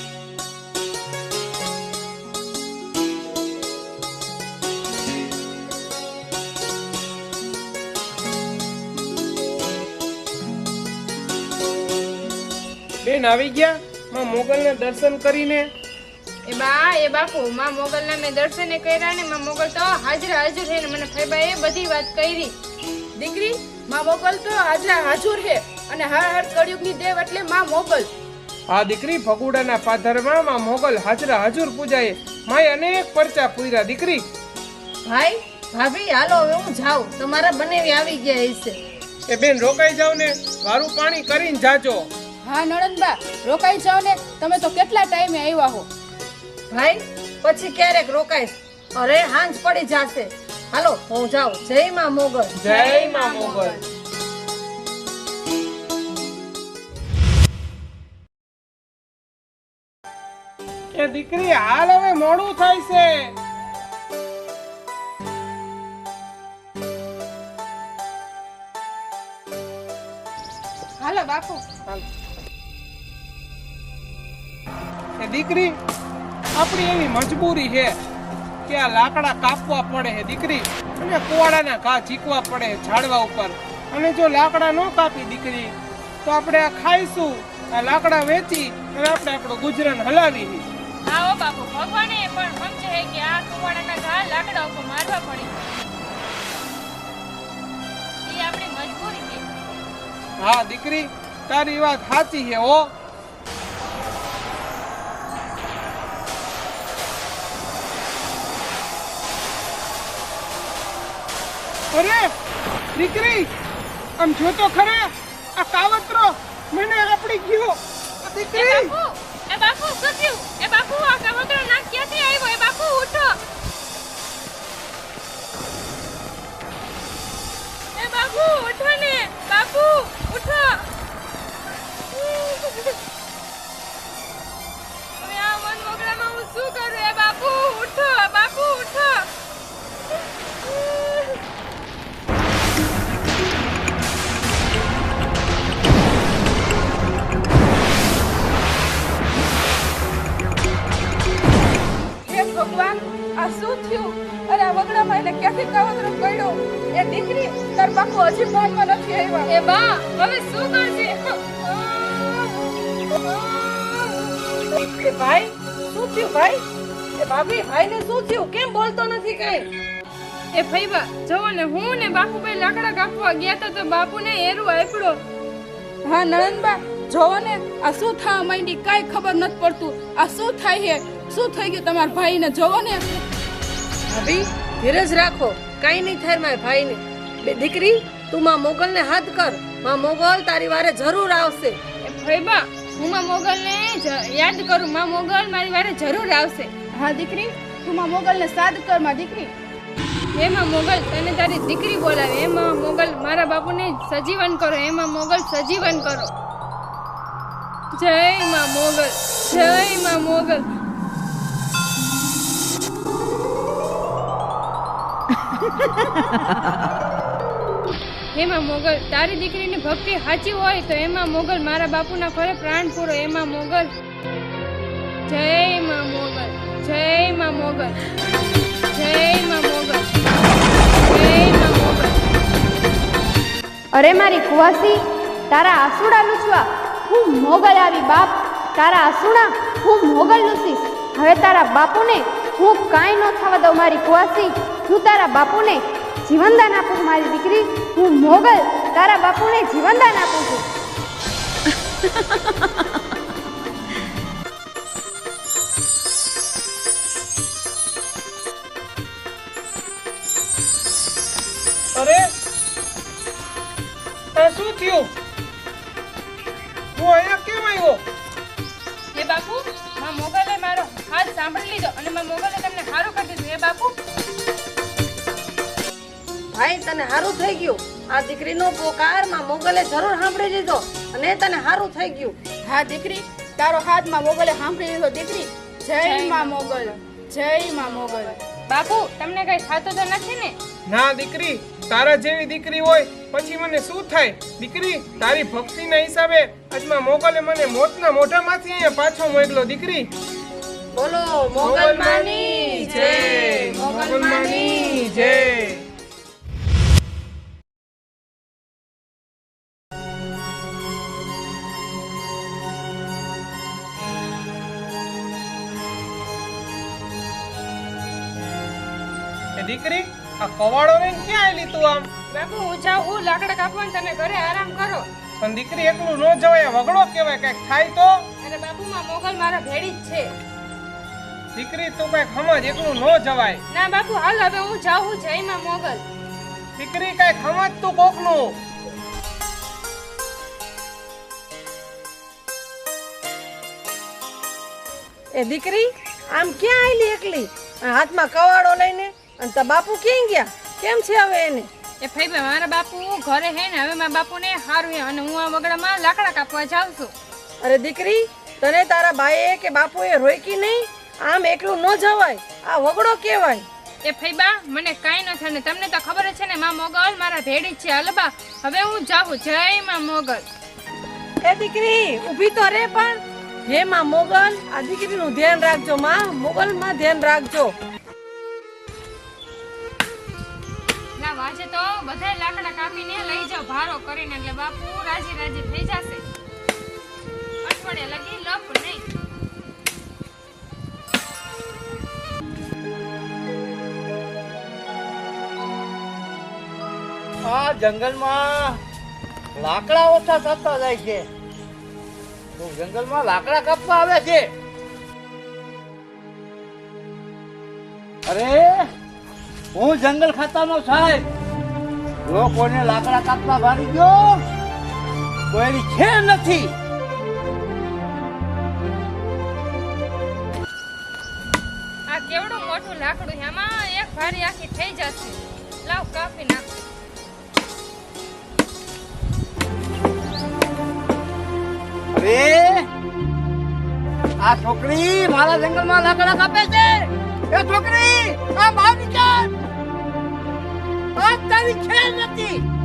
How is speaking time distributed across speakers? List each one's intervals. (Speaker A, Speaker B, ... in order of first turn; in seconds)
Speaker A: 13.0-15.7, 28.7-34.3, 39.3-42.1, 52.6-53.7, 60.9-63.3, 75.2-75.8, 76.5-78.0, 78.7-90.7, 100.4-102.9, 111.9-112.3, 112.9-113.5, 114.2-118.9, 261.9-262.3, 264.4-265.1, 267.0-268.0, 290.9-300.1, 301.6-302.0, 303.6-305.8, 319.6-322.1, 325.4-328.2, 331.6-333.6, 336.8-338.6
Speaker B: 16.4-22.5, 52.6-53.8, 71.0-71.6, 91.0-95.5, 98.2-99.4, 118.5-123.4, 128.0-130.9, 132.1-132.9, 135.2-139.3, 140.7-141.3, 159.5-164.3, 170.5-175.2, 192.0-196.7, 200.3-206.3, 207.9-210.6, 218.3-223.9, 225.3-228.0, 228.9-230.1, 231.0-232.2, 269.1-274.0, 286.0-286.9, 288.7-290.6, 302.7-305.1, 322.3-325.1, 328.4-330.3, 333.7-336.0, 352.0-357.1, 364.0-370.4, 381.2-386.2, 387.6-389.1, 422.1-426.6
Speaker C: 23.2-28.1, 42.4-45.9, 152.2-159.5, 176.1-183.1, 196.9-199.5, 282.6-288.4
Speaker D: 35.1-38.8, 46.7-52.6, 164.7-166.6, 167.2-169.7, 184.1-191.8, 276.5-282.4, 300.9-305.4, 345.4-351.7, 357.6-363.7, 371.4-377.8
Speaker E: 233.9-235.0, 235.5-250.7
Speaker F: 397.4-398.8, 399.6-401.3, 402.6-404.5, 408.3-408.8, 409.7-411.3, 412.3-414.4, 415.5-416.7, 432.1-432.9, 434.4-439.5, 441.2-442.6